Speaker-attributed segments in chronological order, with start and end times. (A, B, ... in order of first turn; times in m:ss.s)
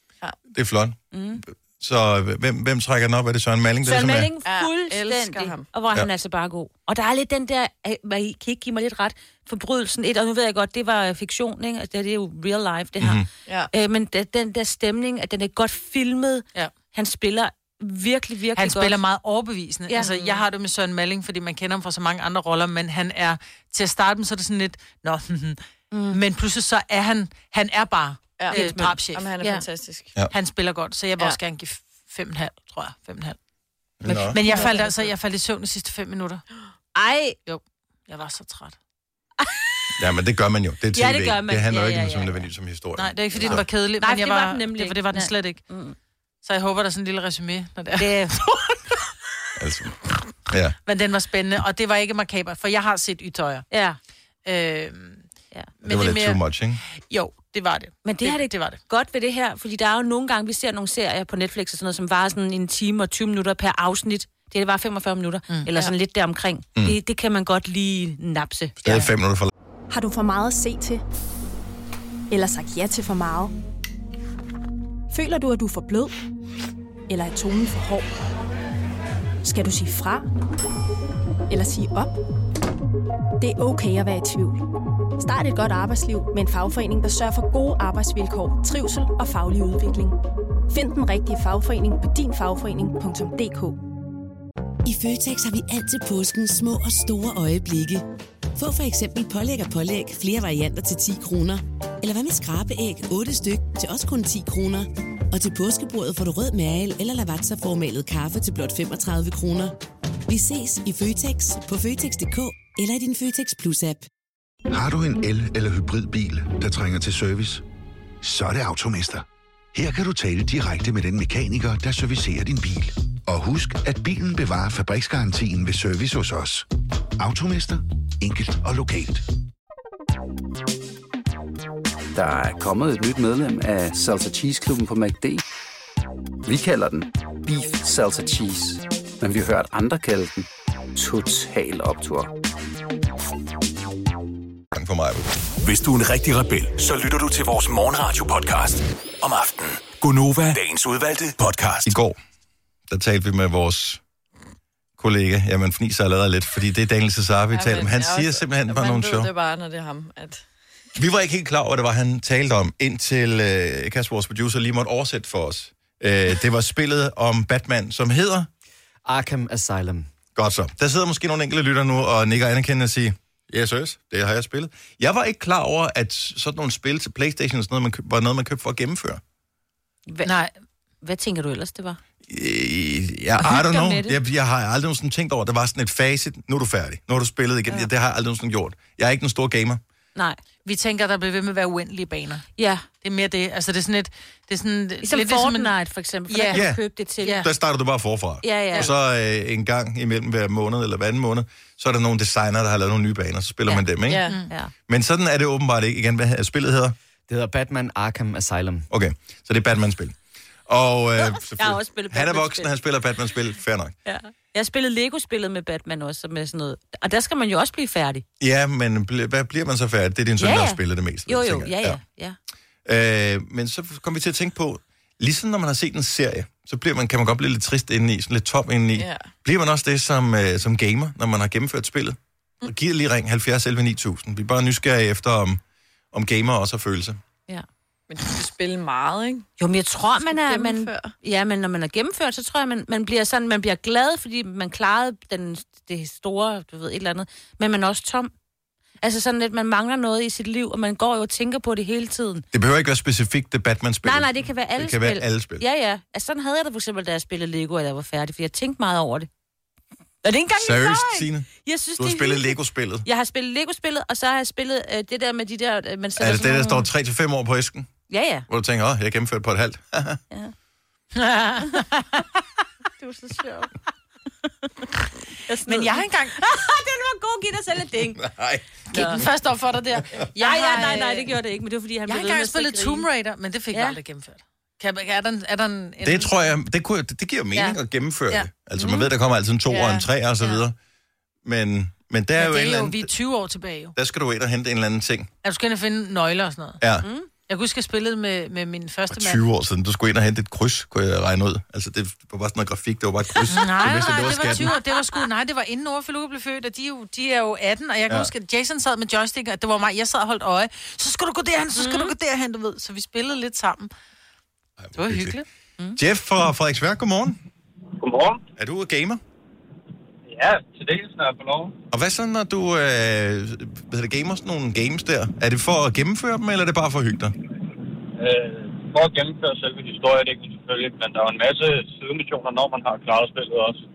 0:00.5-0:04.3 A
0:01.1-0:01.4 B
0:03.8-0:19.0 B
0:04.4-0:05.7 C
0:13.0-0:13.3 A
0:18.6-0:25.6 D
0:19.9-0:20.2 B
0:25.9-0:26.2 B
0:26.1-0:29.3 D
0:28.4-0:30.2 C
0:28.5-0:29.6 B
0:30.3-0:33.4 D
0:34.0-0:34.4 A
0:34.1-0:36.4 D
0:34.4-0:34.9 B
0:34.5-0:35.0 C
0:36.9-0:37.4 B
0:37.5-0:38.8 D
0:40.0-0:43.6 A
0:40.9-0:42.4 B
0:43.0-0:45.6 D
0:43.4-0:46.0 B
0:46.4-0:48.2 D
0:48.0-0:48.6 B
0:49.6-0:50.0 A
0:50.5-0:50.8 A
0:50.8-0:53.7 D
0:53.7-0:54.0 B
0:54.4-0:55.2 D
0:55.8-0:56.4 D
0:55.8-0:56.8 A
0:57.1-0:58.8 D
0:58.0-1:08.8 B
1:05.5-1:05.8 D
1:08.8-1:09.5 A
1:09.9-1:11.0 E
1:12.3-1:13.5 E
1:15.1-1:16.2 E
1:17.1-1:18.1 E
1:19.4-1:20.2 E
1:21.5-1:22.1 E
1:23.4-1:24.6 E
1:25.2-1:30.2 E
1:30.7-1:33.8 E
1:34.8-1:38.0 F
1:38.6-1:49.7 F
1:50.3-1:54.1 F
1:54.7-1:57.6 G
1:58.2-2:06.6 G
2:07.2-2:09.2 G
2:12.1-2:15.4 H
2:16.4-2:22.3 H
2:24.7-2:25.3 A
2:25.6-2:31.9 I
2:31.8-2:32.2 A
2:32.9-2:34.0 A
2:35.0-2:39.3 A
2:37.5-2:40.4 C
2:41.0-2:48.5 A
2:49.0-2:50.1 J
2:50.3-2:59.2 A
3:00.1-3:00.3 B
3:00.2-3:00.5 D
3:01.0-3:02.0 B
3:02.2-3:09.8 A
3:03.4-3:04.2 B
3:10.6-3:12.4 D
3:12.6-3:12.8 B
3:13.0-3:15.7 D
3:15.0-3:17.4 B
3:16.3-3:16.6 D
3:16.5-3:16.8 A
3:17.2-3:17.5 D
3:17.4-3:24.2 A
3:18.4-3:18.9 B
3:24.1-3:24.4 C
3:24.9-3:26.9 A
3:27.3-3:28.8 J
3:28.9-3:33.9 A
3:31.2-3:32.7 B
3:34.0-3:38.2 B
3:38.4-3:42.0 A
3:40.4-3:42.4 B
3:42.8-3:55.6 A
3:48.9-3:49.3 C
3:56.1-3:57.2 A
3:58.1-3:59.5 C
3:59.6-4:08.3 B
4:00.2-4:01.1 C
4:09.0-4:12.4 B
4:12.5-4:15.6 A
4:14.0-4:19.3 B
4:20.2-4:26.9 B
4:20.6-4:23.0 A
4:26.2-4:27.9 A
4:28.1-4:28.5 B
4:28.5-4:30.2 A
4:31.1-4:32.0 D
4:33.0-4:33.7 B
4:35.4-4:38.2 B
4:35.6-4:36.4 D
4:38.2-4:38.7 A
4:38.9-4:41.3 D
4:38.9-4:39.2 B
4:40.4-4:43.0 B
4:42.1-4:46.6 D
4:46.0-4:50.8 A
4:48.8-4:49.1 B
4:51.4-4:53.1 A
4:52.4-4:53.9 D
4:53.9-4:55.3 A
4:55.4-4:56.8 D
4:56.8-4:57.1 A
4:57.0-4:57.3 B
4:57.5-4:59.4 D
4:59.1-5:04.7 A
5:03.5-5:13.9 D
5:04.0-5:05.2 B
5:11.8-5:12.1 B
5:14.8-5:15.4 A
5:14.9-5:15.4 D
5:16.0-5:17.4 A
5:18.0-5:18.4 K
5:18.6-5:19.2 A
5:20.3-5:21.7 K
5:21.9-5:27.3 A
5:28.2-5:33.8 K